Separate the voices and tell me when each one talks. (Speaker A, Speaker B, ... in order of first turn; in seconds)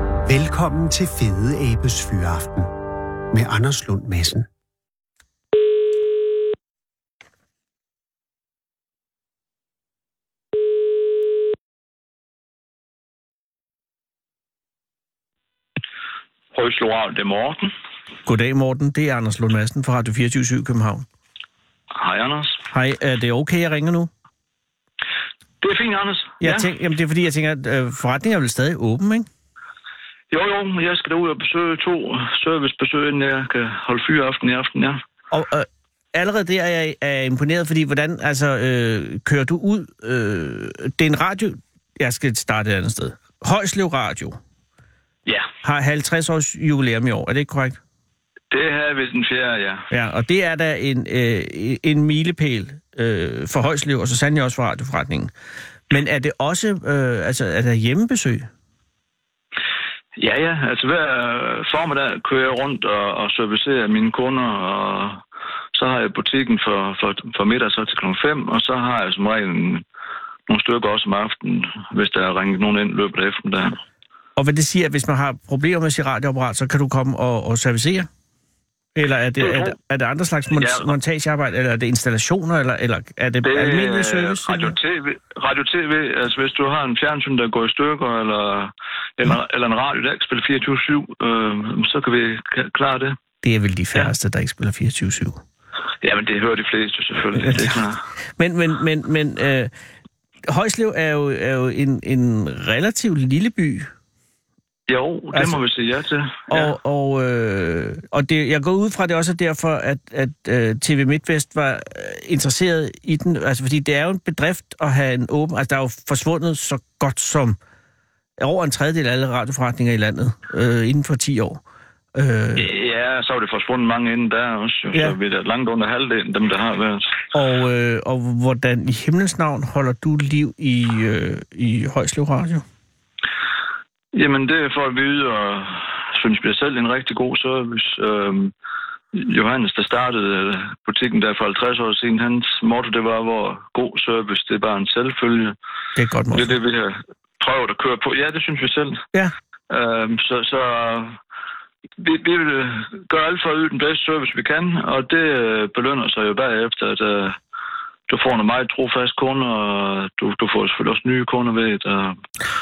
Speaker A: 0.3-2.7, 3.3-4.5
Speaker B: 16.5-17.7, 21.9-22.6, 25.6-26.7, 30.3-35.0, 48.5-49.9, 60.2-65.2, 65.8-69.8, 70.5-73.8, 79.4-79.8, 80.5-80.9, 83.4-93.2, 96.0-98.0, 104.9-106.7, 122.6-127.1, 134.1-138.5, 139.1-145.6, 146.3-149.0, 149.7-151.2, 152.0-157.4, 158.1-162.2
Speaker C: 18.3-21.1, 22.7-24.1, 26.4-29.3, 35.3-44.4, 45.6-47.8, 49.9-55.3, 55.9-58.5, 74.4-78.1, 79.0-84.7, 93.4-95.4, 97.3-99.7, 100.5-103.9, 105.3-105.6, 106.5-117.6, 118.4-121.6, 122.2-122.7, 127.3-132.7, 146.0-146.6